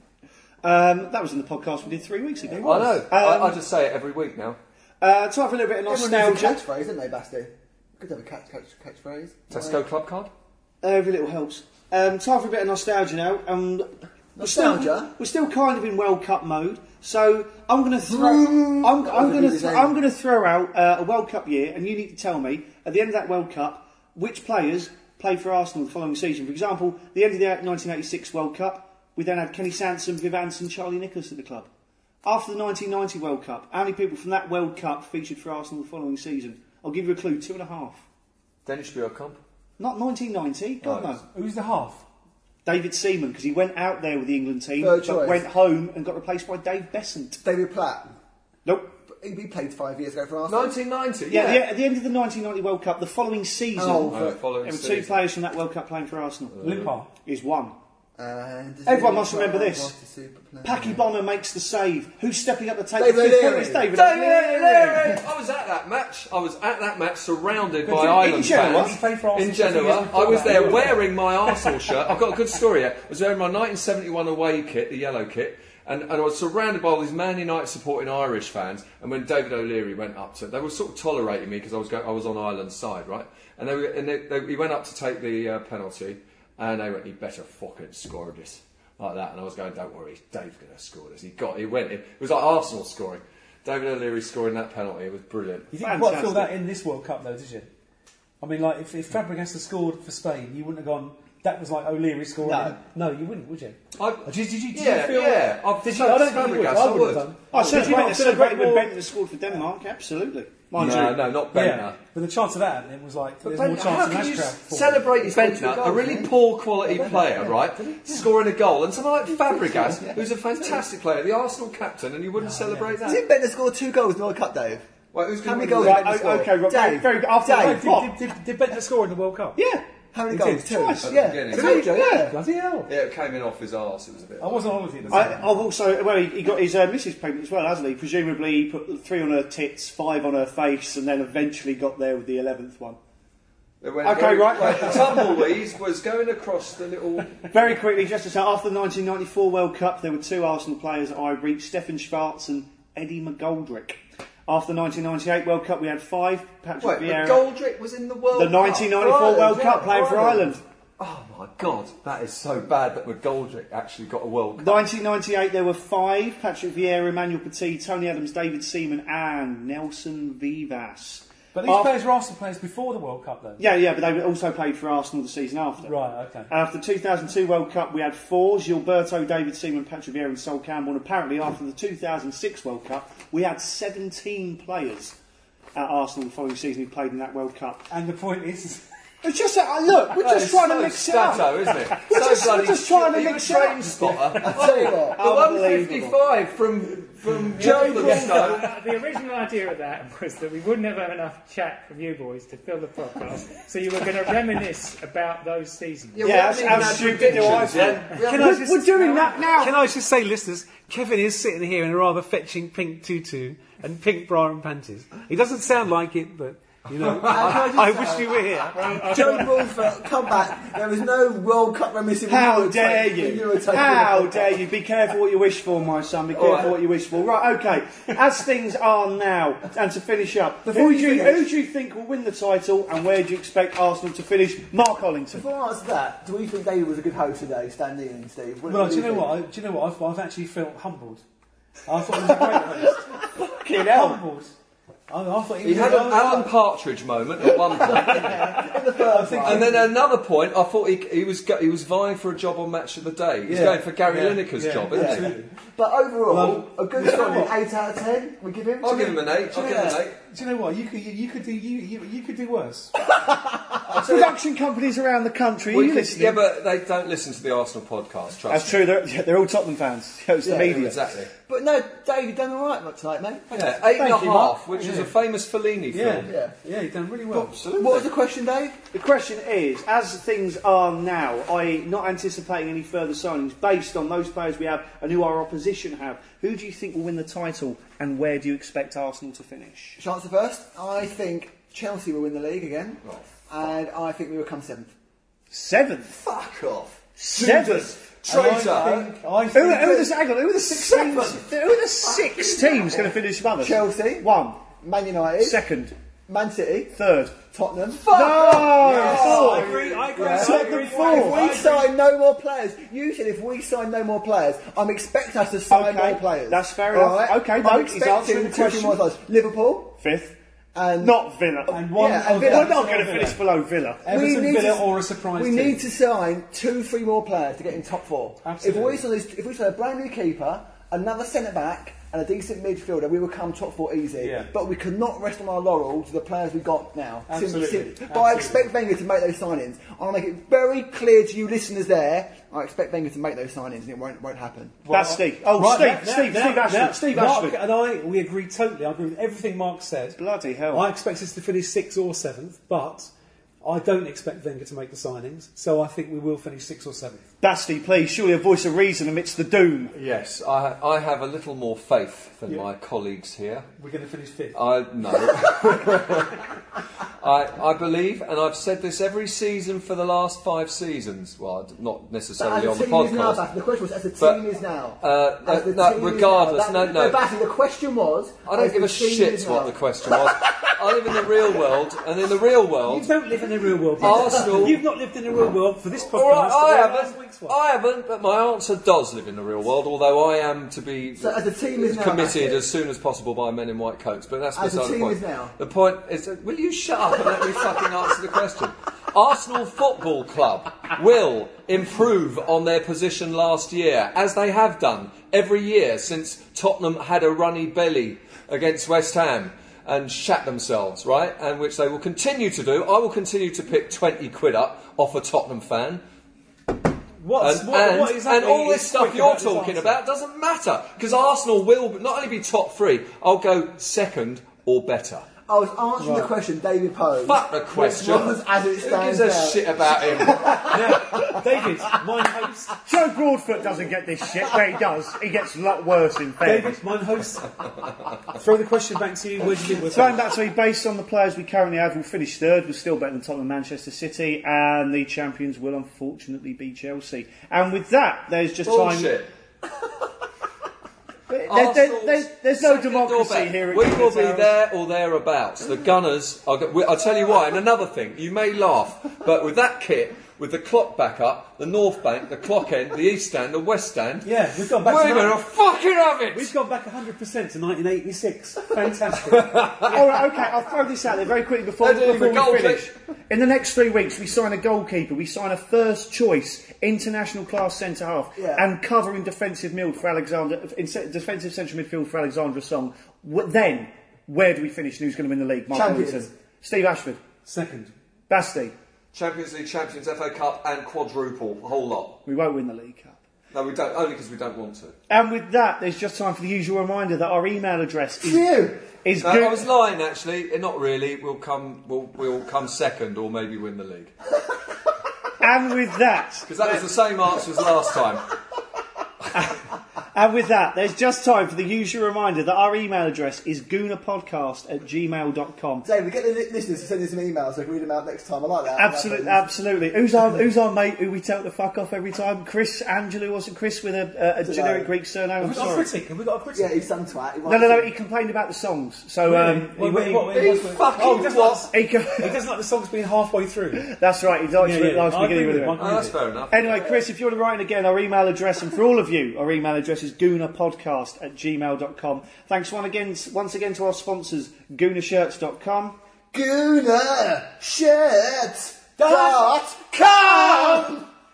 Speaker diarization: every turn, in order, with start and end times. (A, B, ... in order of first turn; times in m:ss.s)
0:00.6-0:03.6 A
0:02.6-0:04.6 B
0:05.0-0:06.6 A
0:05.9-0:09.8 C
0:09.5-0:10.3 B
0:10.8-0:31.7 A
0:14.4-0:15.1 C
0:18.1-0:20.0 C
0:32.2-0:38.0 A
0:38.6-0:39.4 B
0:39.8-0:41.2 A
0:40.8-0:41.2 B
0:41.3-0:42.0 D
0:42.6-0:47.4 A
0:44.8-0:45.4 C
0:47.4-0:48.1 C
0:48.6-0:48.9 A
0:49.1-0:50.8 C
0:50.5-0:51.6 B
0:51.3-0:56.6 A
0:53.8-0:54.4 C
0:54.0-0:55.2 B
0:56.5-0:56.9 B
0:56.6-0:57.1 D
0:57.2-0:57.8 A
0:58.2-1:01.0 C
0:58.9-0:59.9 A
1:00.6-1:05.2 A
1:03.0-1:03.9 C
1:03.9-1:35.7 B
1:07.9-1:09.0 A
1:07.9-1:11.7 D
1:10.4-1:10.6 A
1:35.7-1:37.7 D
1:35.8-1:36.6 A
1:38.4-1:49.0 D
1:42.4-1:42.8 C
1:44.0-1:47.3 B
1:47.5-1:51.3 A
1:50.7-1:52.0 B
1:51.5-1:55.1 D
1:53.4-2:03.2 B
1:55.1-1:56.3 C
1:56.9-1:58.0 D
1:59.5-2:00.2 C
2:02.4-2:03.0 D
2:03.0-2:04.8 C
2:05.1-2:06.1 B
2:05.4-2:07.9 C
2:05.8-2:08.1 A
2:07.5-2:09.6 D
2:09.6-2:09.9 A
2:10.1-2:12.4 C
2:10.3-2:12.9 D
2:10.7-2:11.1 A
2:11.0-2:12.2 B
2:12.9-2:14.8 B
2:14.4-2:15.4 D
2:15.1-2:23.0 A
2:23.8-2:27.5 B
2:24.0-2:25.5 A
2:27.5-2:37.5 A
2:36.8-2:44.8 B
2:38.3-2:40.6 A
2:39.2-2:39.7 C
2:44.6-2:51.9 A
2:51.5-2:53.6 D
2:53.6-2:55.9 A
2:55.8-2:56.5 D
2:56.5-3:05.2 A
3:05.8-3:07.9 A
3:07.9-3:08.8 D
3:09.2-3:16.2 A
3:10.1-3:18.7 B
3:14.4-3:15.2 C
3:17.5-3:26.8 E
3:17.6-3:18.6 D
3:26.2-3:28.4 B
3:26.2-3:29.8 A
3:26.5-3:28.5 C
3:28.2-3:39.6 D
3:37.0-3:37.8 B
3:37.2-3:44.6 C
3:38.7-3:39.8 E
3:42.3-3:55.5 A
3:46.3-3:46.8 B
3:50.6-3:51.5 C
3:55.3-3:59.3 C
3:58.7-4:01.2 D
4:01.9-4:03.2 D
4:02.3-4:02.6 A
4:03.1-4:04.2 A
4:03.7-4:04.5 D
4:05.1-4:06.5 D
4:05.6-4:08.7 B
4:05.9-4:06.5 C
4:08.0-4:09.8 C
4:08.1-4:09.9 D
4:09.4-4:15.4 B
4:13.5-4:15.5 D
4:14.9-4:20.0 C
4:16.3-4:17.6 D
4:18.8-4:20.2 B
4:19.8-4:22.9 D
4:23.1-4:23.8 C
4:23.8-4:24.4 B
4:23.9-4:26.4 A
4:25.7-4:28.9 B
4:28.5-4:31.0 A
4:30.4-4:30.8 C
4:30.6-4:31.3 B
4:31.5-4:33.4 C
4:33.5-4:36.4 B
4:33.8-4:34.6 A
4:34.3-4:35.1 D
4:35.9-4:37.5 D
4:36.2-4:36.5 C
4:37.3-4:38.1 B
4:37.7-4:38.8 C
4:38.9-4:50.0 A
4:50.0-4:54.9 C
4:55.5-4:56.2 A
4:56.2-4:59.1 B
4:57.2-4:57.9 A
4:58.3-5:00.1 D
4:59.5-5:04.6 A
5:00.9-5:01.4 B
5:03.6-5:05.6 C
5:05.4-5:05.9 A
5:06.3-5:06.9 C
5:06.9-5:07.4 A
5:07.4-5:19.9 C
5:08.0-5:09.8 B
5:08.1-5:11.6 A
5:08.6-5:11.9 D
5:15.7-5:19.0 A
5:20.0-5:20.4 A
5:20.8-5:21.1 C
5:21.0-5:24.1 A
5:21.7-5:23.4 D
5:21.9-5:22.7 C
5:24.0-5:25.8 D
5:24.1-5:44.8 C
5:28.4-5:29.0 D
5:34.2-5:34.5 D
5:37.3-5:38.6 D
5:44.8-5:50.2 D
5:44.9-5:47.6 A
5:50.2-5:50.9 A
5:50.7-5:53.1 D
5:53.6-5:57.3 D
5:57.4-5:59.9 A
5:59.9-6:03.7 B
6:03.8-6:04.6 D
6:04.5-6:06.5 B
6:07.2-6:13.4 B
6:12.4-6:19.8 C
6:14.2-6:14.4 B
6:15.0-6:17.2 B
6:18.5-6:23.1 B
6:22.8-6:27.6 D
6:24.0-6:24.8 B
6:24.0-6:24.7 C
6:26.1-6:56.0 B
6:31.2-6:32.6 C
6:34.6-6:35.5 C
6:57.2-7:00.0 D
6:57.4-7:05.3 B
7:05.5-7:11.9 C
7:06.0-7:06.3 D
7:07.2-7:10.8 B
7:10.6-7:12.8 D
7:12.9-7:16.8 A
7:16.4-7:17.5 D
7:18.3-7:20.2 D
7:19.9-7:29.2 A
7:28.6-7:29.3 B
7:31.3-7:34.5 A
7:31.5-7:46.5 B
7:44.2-7:45.4 D
7:46.3-7:50.0 D
7:49.4-7:49.9 B
7:49.8-8:07.2 A
7:51.8-7:52.9 B
7:58.4-7:58.6 C
8:05.7-8:06.3 C
8:07.4-8:07.9 D
8:08.3-8:08.7 A
8:09.1-8:12.2 B
8:12.2-8:13.2 A
8:13.5-8:15.0 B
8:15.1-8:19.7 A
8:18.2-8:18.8 C
8:19.2-8:24.1 B
8:25.4-8:26.8 A
8:26.4-8:28.3 B
8:29.3-8:29.6 A
8:30.1-8:35.9 A
8:35.8-8:39.4 C
8:38.7-8:45.9 A
8:44.4-8:44.9 C
8:45.4-8:46.8 D
8:46.5-8:47.9 C
8:47.5-8:50.2 A
8:49.2-8:53.9 D
8:49.8-8:51.7 B
8:51.7-8:52.4 A
8:53.8-8:55.8 A
8:54.6-8:56.2 D
8:55.8-8:56.7 B
8:56.5-9:06.0 A
9:06.3-9:11.1 C
9:09.0-9:09.4 D